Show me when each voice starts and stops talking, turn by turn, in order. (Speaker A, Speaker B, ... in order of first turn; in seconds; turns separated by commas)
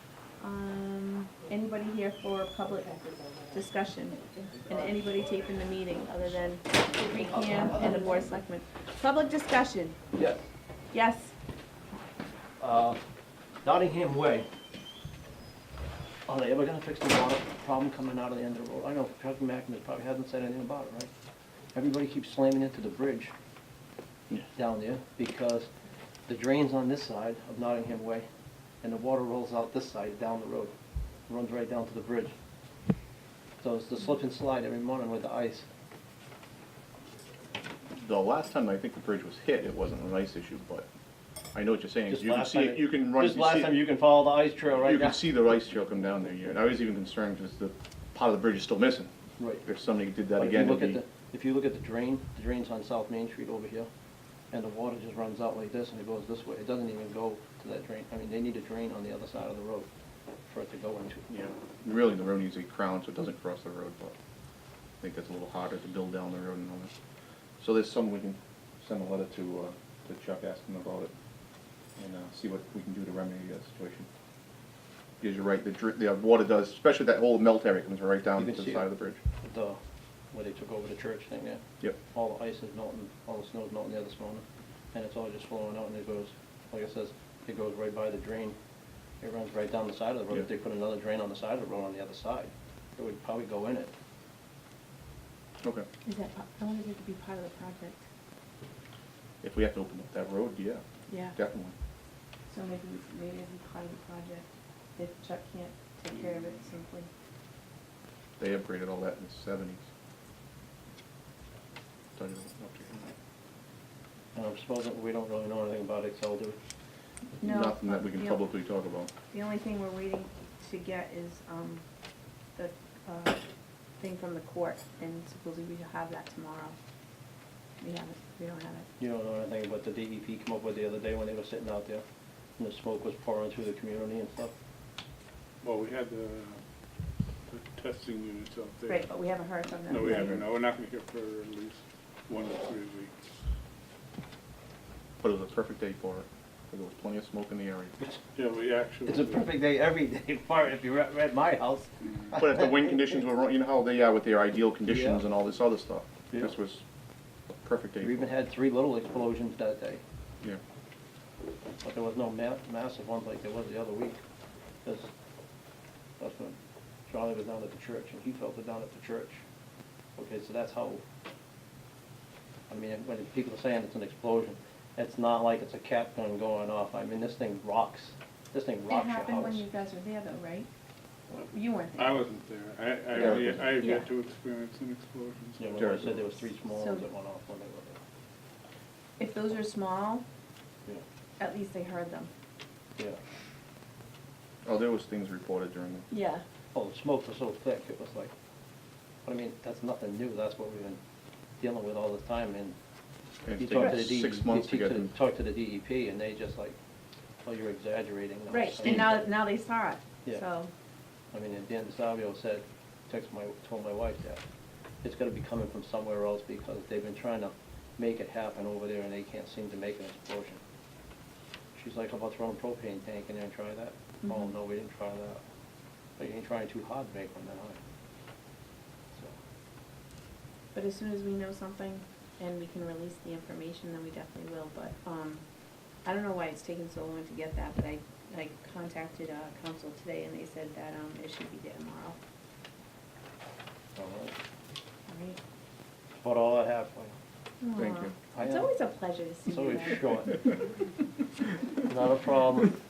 Speaker A: 0.4-3.0, Speaker A: 3.5-10.0, Speaker B: 7.5-8.0, Speaker B: 10.1-10.4, Speaker A: 10.9-11.3, Speaker B: 12.6-13.0, Speaker B: 13.6-14.5, Speaker B: 16.3-21.1, Speaker B: 21.7-23.3, Speaker B: 24.5-25.7, Speaker B: 26.3-28.2, Speaker B: 28.8-30.7, Speaker B: 31.3-32.3, Speaker B: 33.6-35.7, Speaker C: 38.0-40.9, Speaker C: 41.5-43.8, Speaker B: 42.1-45.2, Speaker C: 44.8-51.0, Speaker B: 49.4-49.6, Speaker B: 50.4-53.9, Speaker B: 54.5-59.9, Speaker B: 60.5-61.2, Speaker C: 61.3-64.1, Speaker C: 65.0-66.9, Speaker C: 67.6-71.1, Speaker C: 72.0-74.1, Speaker C: 75.2-79.2, Speaker B: 78.4-78.9, Speaker B: 79.4-79.8, Speaker B: 80.3-88.5, Speaker B: 89.2-93.9, Speaker C: 95.6-95.9, Speaker A: 96.0-98.0, Speaker C: 99.4-100.8, Speaker A: 101.1-101.3, Speaker C: 101.3-101.7, Speaker A: 102.5-107.1, Speaker C: 108.4-109.8, Speaker C: 112.2-113.1, Speaker B: 114.3-116.6, Speaker A: 117.4-118.4, Speaker C: 117.4-119.1, Speaker A: 119.3-121.8, Speaker A: 122.5-123.4, Speaker A: 124.0-126.8, Speaker A: 127.8-128.8, Speaker B: 129.0-132.0, Speaker B: 132.6-134.5, Speaker D: 135.6-136.6, Speaker D: 137.5-139.1, Speaker A: 138.9-140.4, Speaker D: 139.9-143.2, Speaker C: 145.2-147.9, Speaker D: 148.3-149.5, Speaker B: 149.0-152.4, Speaker C: 152.3-156.8, Speaker B: 154.8-155.2, Speaker C: 157.6-158.3, Speaker B: 158.0-160.0, Speaker B: 161.8-164.2, Speaker B: 164.8-165.1, Speaker B: 166.2-166.6, Speaker B: 167.1-169.4, Speaker B: 170.2-171.0, Speaker B: 172.7-179.6, Speaker A: 178.9-180.7, Speaker A: 181.4-182.1, Speaker D: 181.9-186.2, Speaker C: 183.2-183.7, Speaker A: 183.8-184.1, Speaker B: 185.6-188.0, Speaker C: 185.8-186.2, Speaker A: 186.7-187.1, Speaker A: 189.2-190.2, Speaker A: 191.4-192.3, Speaker C: 194.6-196.1, Speaker A: 196.1-196.4, Speaker B: 196.7-198.3, Speaker B: 199.2-201.0, Speaker B: 201.6-202.8, Speaker C: 203.4-205.1, Speaker B: 203.6-206.8, Speaker B: 207.4-209.2, Speaker A: 208.5-210.7, Speaker C: 208.8-209.1, Speaker B: 211.3-214.4, Speaker B: 215.0-220.6, Speaker B: 221.7-225.4, Speaker A: 224.2-224.5, Speaker B: 226.2-227.8, Speaker A: 230.7-235.4, Speaker A: 236.0-242.2, Speaker B: 243.9-244.3, Speaker A: 245.1-245.4, Speaker B: 246.2-247.1, Speaker A: 247.6-250.4, Speaker C: 247.8-248.2, Speaker B: 248.3-248.7, Speaker B: 249.4-250.5, Speaker B: 251.8-252.8